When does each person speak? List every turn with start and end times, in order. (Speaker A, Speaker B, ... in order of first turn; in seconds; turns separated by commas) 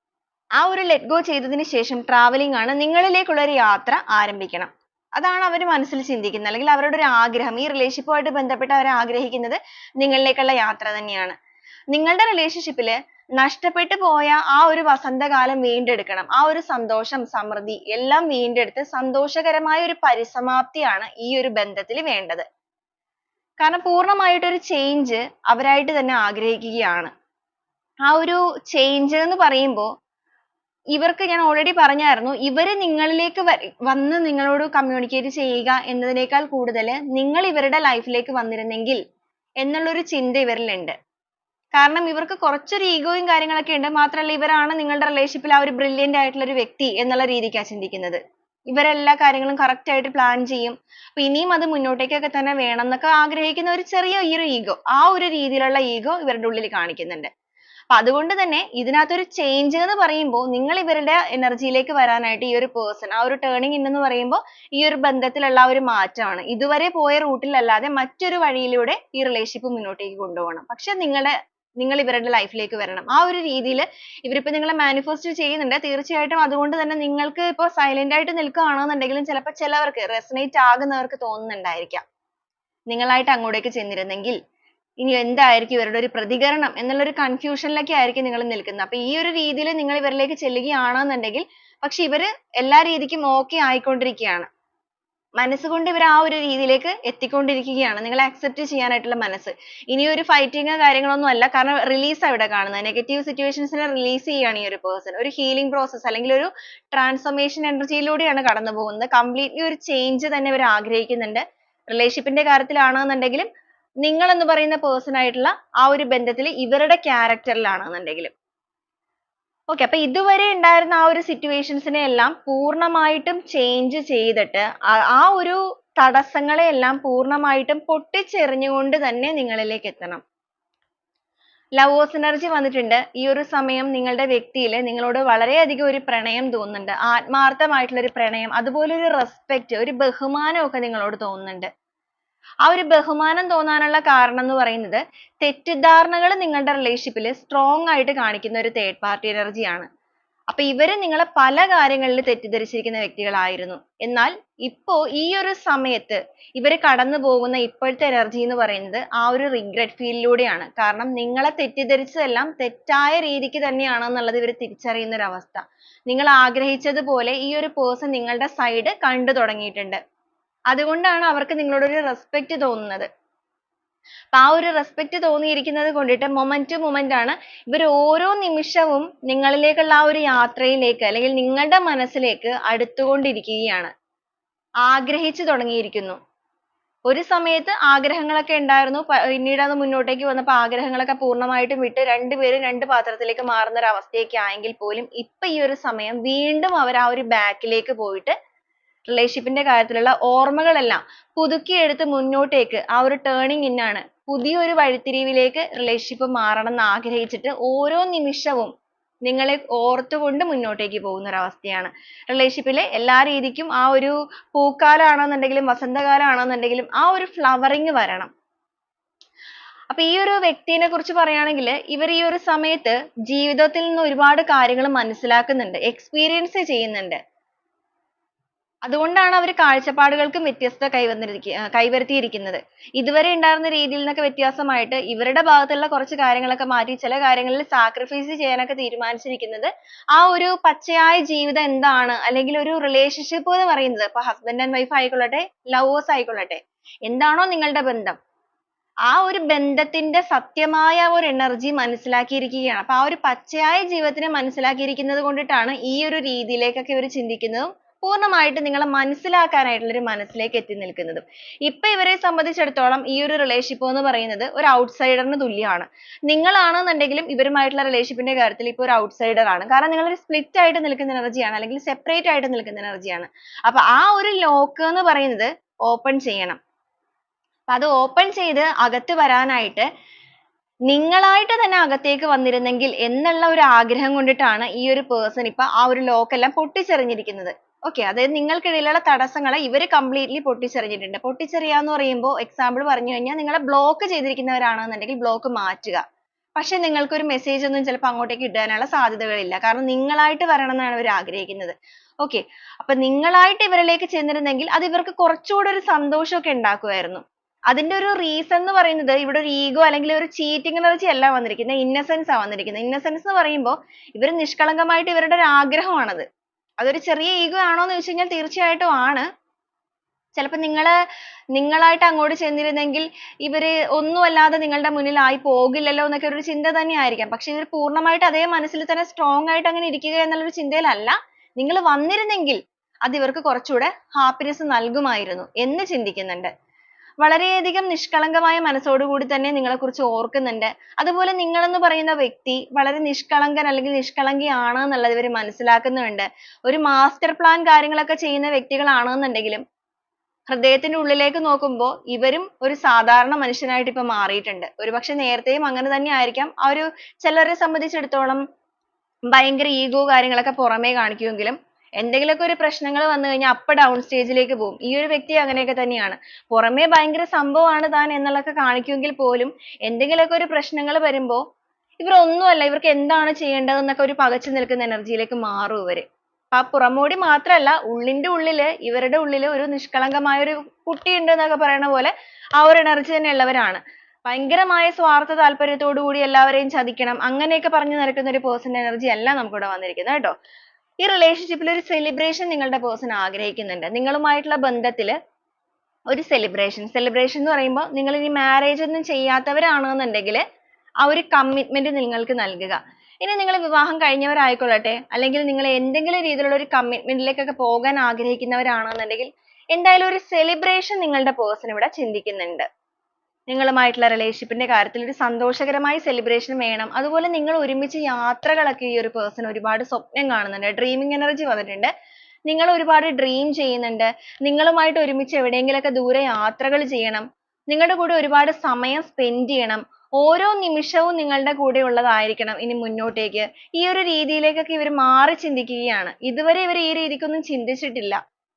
Speaker A: 0.6-11.4, Speaker A: 11.9-22.5, Speaker A: 23.6-27.1, Speaker A: 28.1-29.9, Speaker A: 30.9-39.0, Speaker A: 39.6-41.0, Speaker A: 41.8-57.3, Speaker A: 57.9-82.0, Speaker A: 82.9-84.4, Speaker A: 85.0-94.5, Speaker A: 95.4-113.5, Speaker A: 114.0-118.3, Speaker A: 119.7-130.2, Speaker A: 131.8-141.7, Speaker A: 142.7-149.9, Speaker A: 150.5-170.0, Speaker A: 170.7-173.1, Speaker A: 174.3-183.9, Speaker A: 184.9-186.2, Speaker A: 187.1-198.3, Speaker A: 199.1-208.7, Speaker A: 209.2-218.3, Speaker A: 219.9-227.2, Speaker A: 228.9-248.2, Speaker A: 249.1-276.6, Speaker A: 277.7-279.9, Speaker A: 280.9-296.0, Speaker A: 296.6-316.3, Speaker A: 316.8-319.3, Speaker A: 320.4-320.9, Speaker A: 321.6-336.5, Speaker A: 337.2-349.6, Speaker A: 350.5-358.4, Speaker A: 359.3-371.4, Speaker A: 372.0-390.3, Speaker A: 391.0-395.2, Speaker A: 396.1-400.4, Speaker A: 401.0-412.7, Speaker A: 413.5-421.9, Speaker A: 422.5-438.2